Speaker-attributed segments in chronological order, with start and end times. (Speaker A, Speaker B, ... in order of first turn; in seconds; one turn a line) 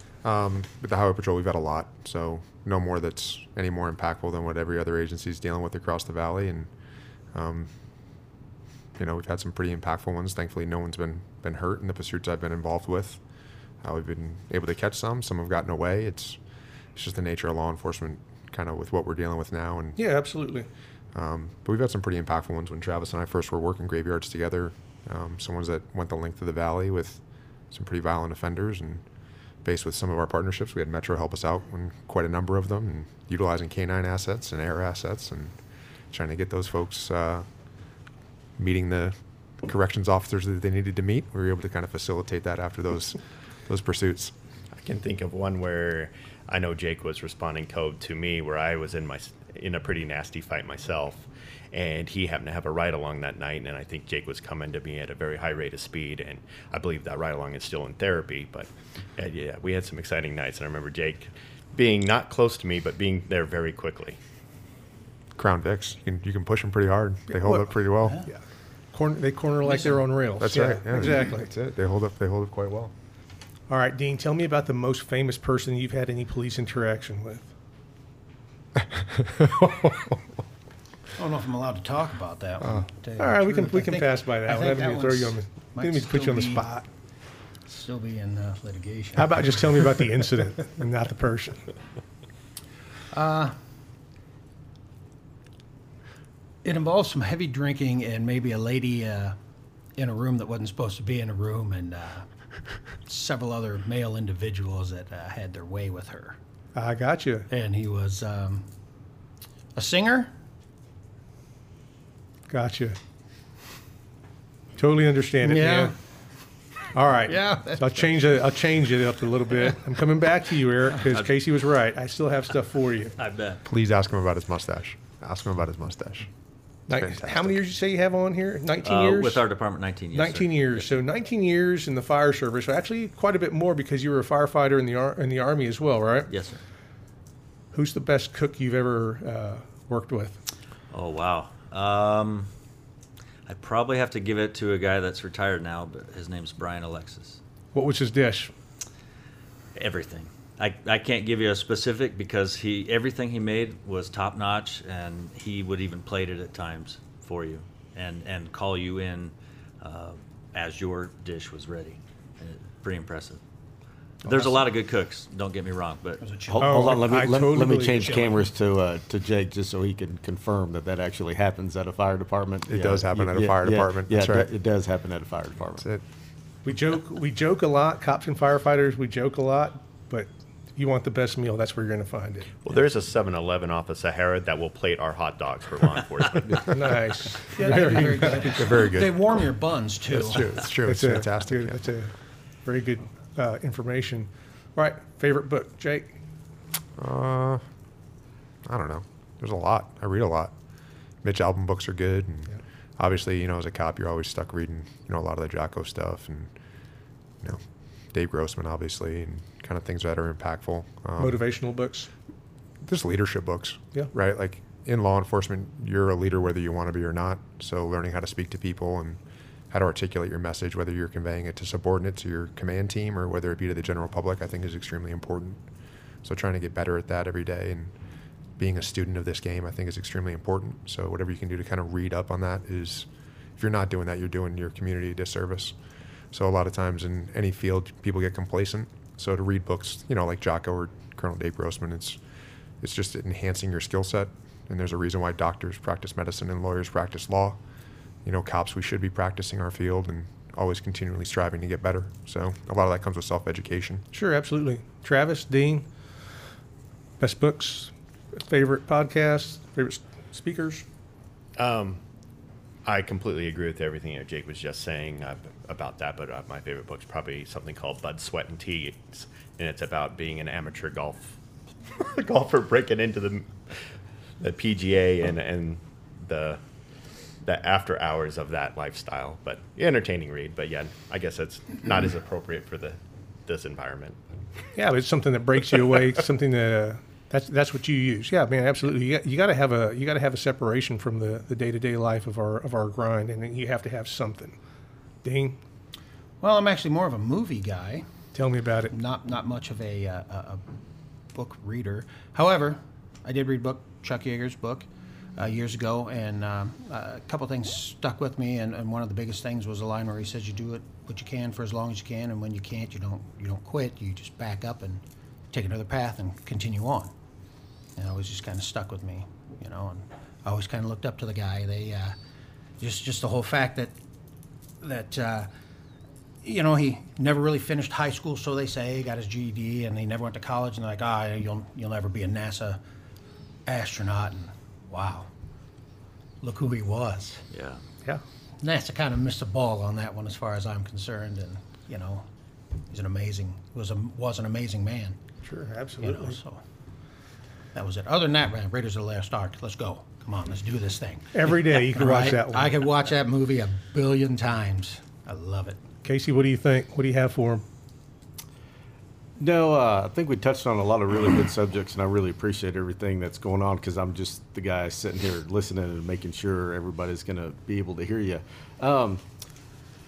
Speaker A: 0.2-6.7
Speaker A: 7.3-7.7
Speaker A: 9.0-13.2
Speaker A: 13.8-16.4
Speaker A: 16.9-20.0
Speaker B: 20.0-20.7
Speaker A: 21.1-29.0
Speaker A: 29.6-35.6
Speaker A: 36.1-37.5
Speaker A: 38.6-44.4
Speaker C: 44.7-64.2
Speaker A: 65.3-68.2
Speaker B: 67.3-67.7
Speaker B: 68.9-71.5
Speaker D: 69.6-70.0
Speaker A: 70.4-72.9
Speaker B: 73.7-77.5
Speaker A: 78.8-80.2
Speaker D: 81.2-86.7
Speaker B: 83.2-86.8
Speaker D: 87.7-89.9
Speaker B: 89.2-91.7
Speaker D: 93.1-93.6
Speaker D: 96.6-99.4
Speaker D: 100.0-102.3
Speaker D: 103.0-106.4
Speaker B: 106.7-107.5
Speaker D: 107.5-108.7
Speaker D: 109.7-110.3
Speaker B: 112.5-113.0
Speaker B: 114.8-115.9
Speaker D: 115.4-115.9
Speaker B: 116.9-123.2
Speaker D: 117.3-118.1
Speaker E: 121.0-121.3
Speaker E: 123.2-123.6
Speaker A: 123.6-126.3
Speaker B: 126.9-129.4
Speaker A: 126.9-127.6
Speaker E: 128.8-130.9
Speaker B: 130.1-136.3
Speaker E: 136.3-136.6
Speaker B: 137.7-140.4
Speaker E: 140.9-142.5
Speaker E: 143.5-147.4
Speaker B: 147.7-148.5
Speaker E: 149.7-163.4
Speaker E: 164.2-166.2
Speaker D: 166.2-167.1
Speaker F: 166.5-175.8
Speaker B: 166.6-168.1
Speaker D: 168.0-168.4
Speaker A: 172.7-174.5
Speaker A: 175.8-176.0
Speaker B: 176.6-182.5
Speaker C: 182.6-186.8
Speaker B: 186.6-188.5
Speaker D: 187.5-190.6
Speaker A: 188.4-189.4
Speaker A: 190.1-191.9
Speaker B: 190.6-192.1
Speaker B: 192.6-196.1
Speaker A: 197.0-197.6
Speaker A: 198.6-200.5
Speaker A: 201.2-206.5
Speaker A: 207.4-211.4
Speaker B: 211.2-212.1
Speaker A: 212.8-225.6
Speaker A: 226.2-227.9
Speaker A: 228.6-235.8
Speaker A: 236.3-242.2
Speaker A: 242.8-247.6
Speaker A: 248.2-254.1
Speaker B: 254.1-255.9
Speaker B: 257.2-260.9
Speaker C: 261.6-262.0
Speaker C: 262.9-273.9
Speaker C: 274.4-276.6
Speaker C: 277.4-284.2
Speaker B: 284.8-294.6
Speaker B: 295.2-295.6
Speaker D: 296.4-298.1
Speaker B: 298.3-298.9
Speaker D: 298.9-300.6
Speaker D: 301.3-317.1
Speaker D: 317.9-322.1
Speaker D: 322.8-323.9
Speaker D: 324.8-325.5
Speaker D: 326.4-332.8
Speaker D: 333.6-335.3
Speaker D: 336.4-337.4
Speaker E: 337.5-337.8
Speaker D: 338.6-342.3
Speaker D: 342.9-345.2
Speaker B: 345.4-346.4
Speaker D: 346.0-346.6
Speaker D: 347.7-355.8
Speaker B: 351.3-352.7
Speaker B: 356.0-357.6
Speaker F: 359.4-369.2